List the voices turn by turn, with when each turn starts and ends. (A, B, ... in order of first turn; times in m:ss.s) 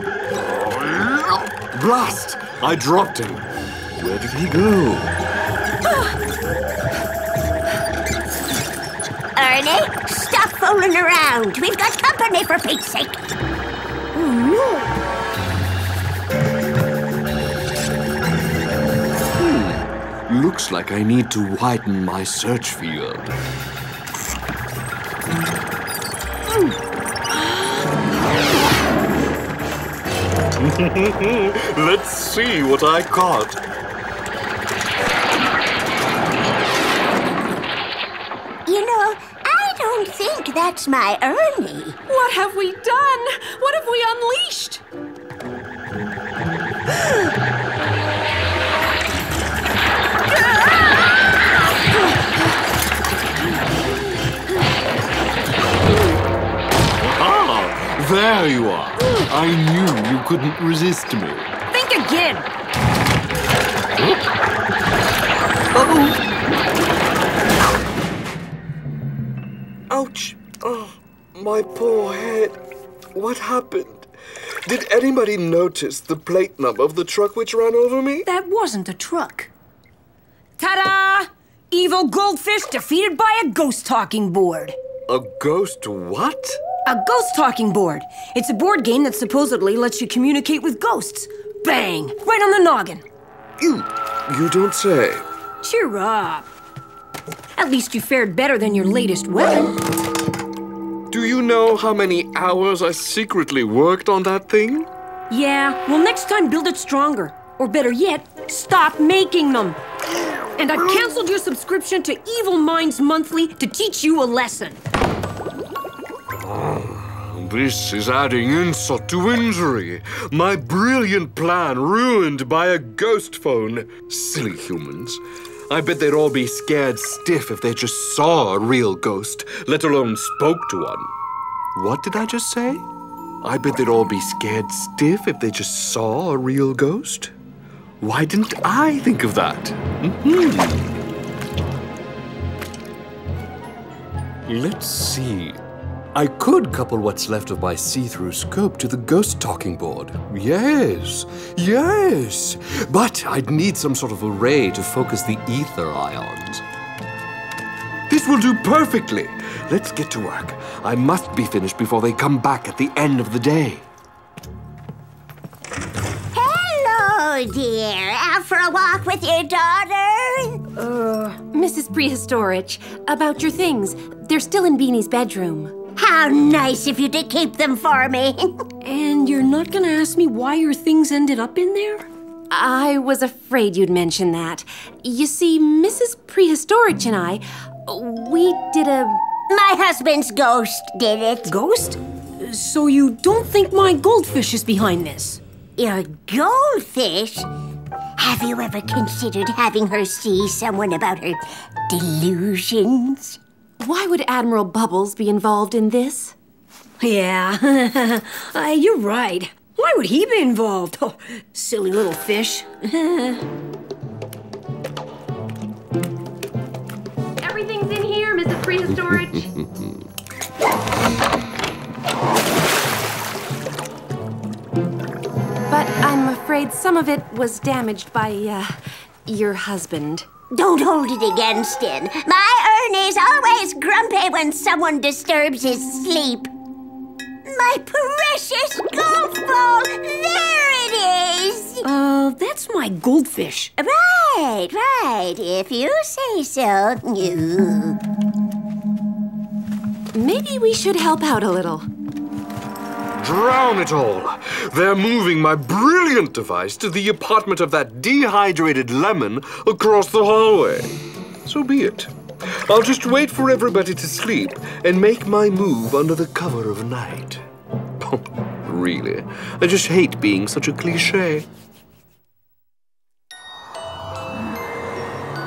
0:00.3-0:05.1 A
0:05.8-0:06.2 B
0:09.3-0:13.2 C
0:14.1-0:14.9 D
0:19.4-0:23.3 A
0:27.4-0:27.8 B
0:30.6-0:33.6 A
0:38.6-0:42.0 C
0:42.1-0:44.8 B
0:57.0-1:01.5 A
1:01.7-1:02.5 D
1:05.7-1:06.2 A
1:09.9-1:12.6 A
1:13.1-1:18.2 A
1:18.2-1:19.5 D
1:20.6-1:24.8 D
1:25.1-1:26.6 A
1:26.8-1:33.0 D
1:33.6-1:35.3 A
1:35.6-1:36.5 D
1:37.6-1:39.7 D
1:41.1-1:44.9 A
1:45.3-1:49.8 D
1:50.6-1:54.8 D
1:56.3-2:11.1 A
2:11.7-2:12.8 A
2:13.4-2:17.3 A
2:18.0-2:21.0 A
2:24.5-2:25.6 A
2:26.1-2:36.6 A
2:38.1-2:43.8 A
2:46.3-2:50.6 C
2:50.8-2:51.4 D
2:51.5-2:55.8 B
2:56.0-2:58.6 C
2:58.8-3:02.1 D
3:02.5-3:09.2 B
3:09.5-3:11.5 C
3:11.4-3:15.4 D
3:15.8-3:17.5 C
3:18.2-3:23.4 C
3:23.8-3:26.3 B
3:27.0-3:33.4 D
3:37.4-3:39.5 B
3:39.6-3:39.9 A
3:45.7-3:50.3 B
3:50.5-3:56.5 C
3:57.4-4:01.8 C
4:01.8-4:03.7 D
4:03.8-4:08.0 C
4:10.1-4:11.8 B
4:13.2-4:27.4 A
4:28.0-4:31.5 A